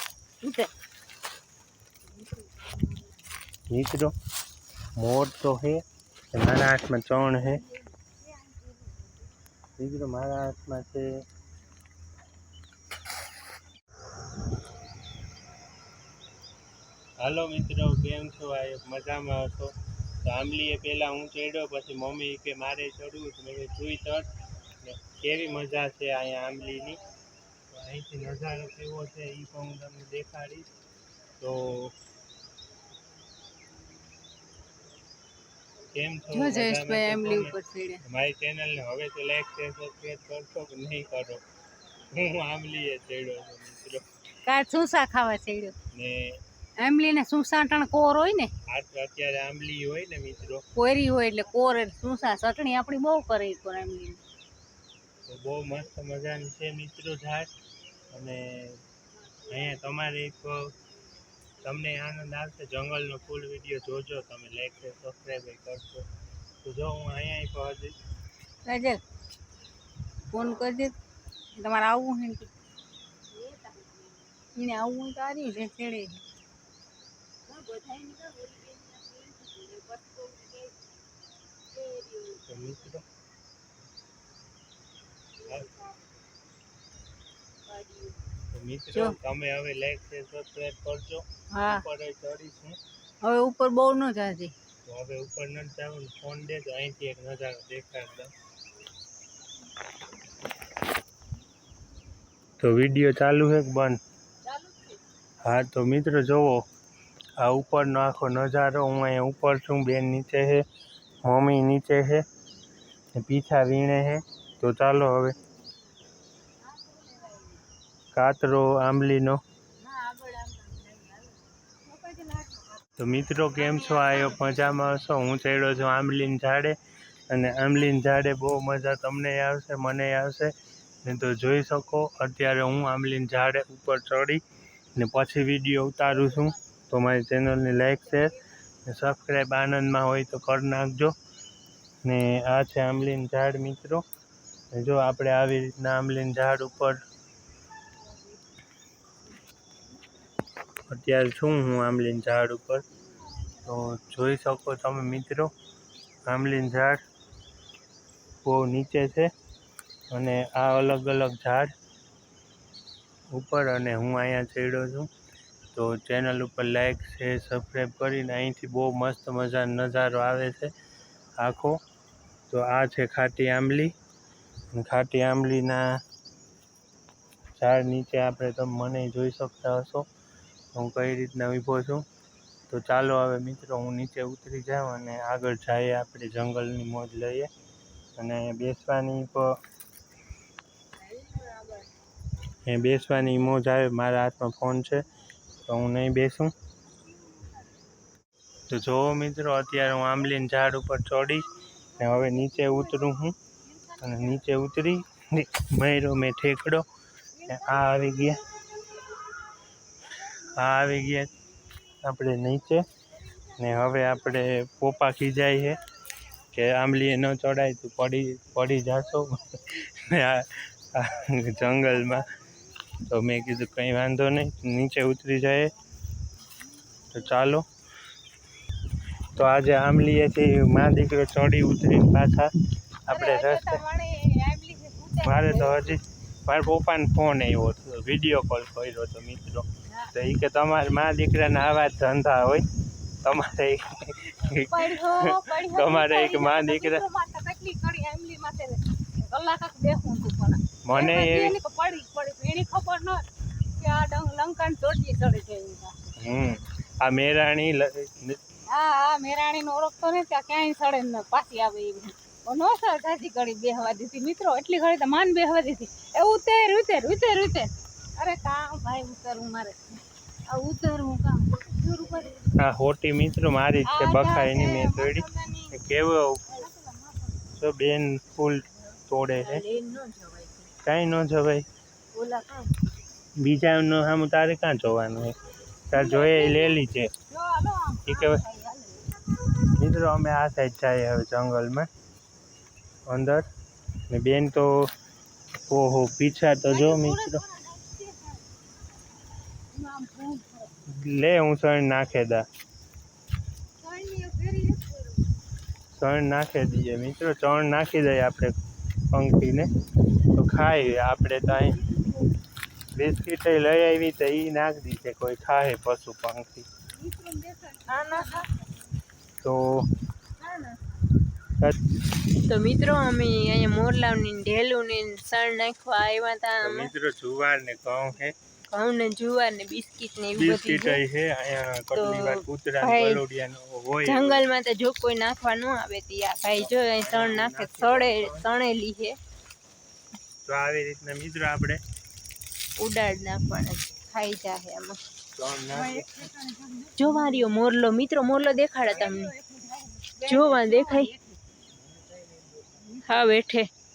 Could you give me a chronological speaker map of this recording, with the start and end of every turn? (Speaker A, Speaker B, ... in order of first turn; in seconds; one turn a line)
Speaker A: 0.4-0.7
Speaker A: 2.2-3.1
Speaker B: 3.7-4.1
Speaker B: 5.0-7.6
Speaker A: 7.4-9.0
Speaker B: 9.8-11.1
Speaker B: 17.2-24.3
Speaker B: 24.8-27.0
Speaker B: 27.7-30.7
Speaker B: 31.4-31.9
Speaker B: 35.9-41.4
Speaker A: 36.3-38.0
Speaker B: 42.1-44.0
Speaker A: 44.5-45.8
Speaker B: 45.9-46.4
Speaker A: 46.8-48.5
Speaker B: 48.7-50.6
Speaker A: 50.8-54.2
Speaker B: 55.3-57.5
Speaker B: 58.1-58.8
Speaker B: 59.4-60.7
Speaker B: 61.6-66.0
Speaker B: 66.6-68.0
Speaker A: 68.7-69.0
Speaker A: 70.3-70.9
Speaker A: 71.6-72.5
Speaker A: 74.6-76.2
Speaker A: 77.5-80.7
Speaker C: 77.6-78.9
Speaker A: 81.8-82.3
Speaker B: 82.4-83.0
Speaker A: 87.7-88.2
Speaker B: 88.5-92.8
Speaker A: 91.5-91.9
Speaker A: 93.2-94.5
Speaker B: 94.8-98.3
Speaker B: 102.6-104.0
Speaker B: 105.4-106.7
Speaker B: 107.4-110.7
Speaker B: 111.2-112.2
Speaker B: 113.2-115.4
Speaker A: 116.7-117.6
Speaker B: 118.1-119.4
Speaker A: 119.8-122.8
Speaker B: 123.0-126.8
Speaker B: 127.3-130.5
Speaker B: 131.0-134.4
Speaker B: 135.0-141.1
Speaker B: 142.1-144.0
Speaker B: 144.7-147.0
Speaker B: 150.9-152.8
Speaker B: 153.6-155.5
Speaker B: 156.3-157.0
Speaker B: 158.4-159.3
Speaker B: 160.1-161.7
Speaker B: 163.3-165.1
Speaker B: 165.7-170.7
Speaker B: 171.4-171.8
Speaker B: 172.5-173.9
Speaker B: 174.7-175.9
Speaker B: 177.6-180.1
Speaker B: 180.7-182.1
Speaker B: 182.7-187.5
Speaker B: 188.2-189.5
Speaker A: 191.0-191.9
Speaker B: 192.7-195.0
Speaker B: 195.7-196.5
Speaker A: 197.3-197.6
Speaker B: 198.7-203.3
Speaker A: 202.0-204.4
Speaker B: 204.0-206.8
Speaker A: 207.4-208.2
Speaker B: 207.5-208.4
Speaker B: 210.3-211.3
Speaker B: 212.0-212.9
Speaker B: 213.5-215.8
Speaker B: 216.5-222.3
Speaker B: 223.0-225.7
Speaker B: 227.1-227.7
Speaker B: 229.3-232.5
Speaker B: 233.1-233.8
Speaker A: 233.1-236.0
Speaker B: 235.2-242.7
Speaker B: 243.2-247.0
Speaker A: 244.6-256.0
Speaker B: 250.8-251.6
Speaker B: 256.2-258.4
Speaker A: 258.7-272.5
Speaker B: 272.5-276.4
Speaker A: 273.8-275.7
Speaker C: 275.2-275.5
Speaker A: 276.5-277.4
Speaker B: 277.6-279.7
Speaker C: 279.4-280.7
Speaker B: 280.8-281.7
Speaker C: 282.1-282.7
Speaker B: 283.4-285.4
Speaker B: 285.9-287.1
Speaker A: 285.9-286.8
Speaker A: 287.3-289.1
Speaker B: 288.1-288.4
Speaker B: 289.8-291.9
Speaker B: 293.1-293.4
Speaker B: 294.1-294.9
Speaker B: 295.7-297.4
Speaker A: 296.7-298.5
Speaker A: 299.7-300.8
Speaker B: 300.9-302.5
Speaker A: 303.8-305.3
Speaker B: 305.9-308.6
Speaker B: 309.1-309.7
Speaker B: 310.3-311.8
Speaker B: 312.9-316.7
Speaker A: 316.9-318.5
Speaker C: 317.9-318.5
Speaker B: 319.4-319.9
Speaker C: 320.4-320.7
Speaker C: 322.4-326.9
Speaker B: 326.6-328.4
Speaker C: 328.7-331.0
Speaker B: 330.4-334.5
Speaker C: 331.9-333.2
Speaker C: 334.1-339.2
Speaker B: 336.6-338.5
Speaker B: 340.4-341.8
Speaker C: 342.8-345.0
Speaker B: 345.4-346.3
Speaker A: 345.7-347.6
Speaker C: 347.0-349.3
Speaker A: 348.9-351.4
Speaker C: 350.3-351.1
Speaker A: 352.6-353.4
Speaker C: 353.1-353.7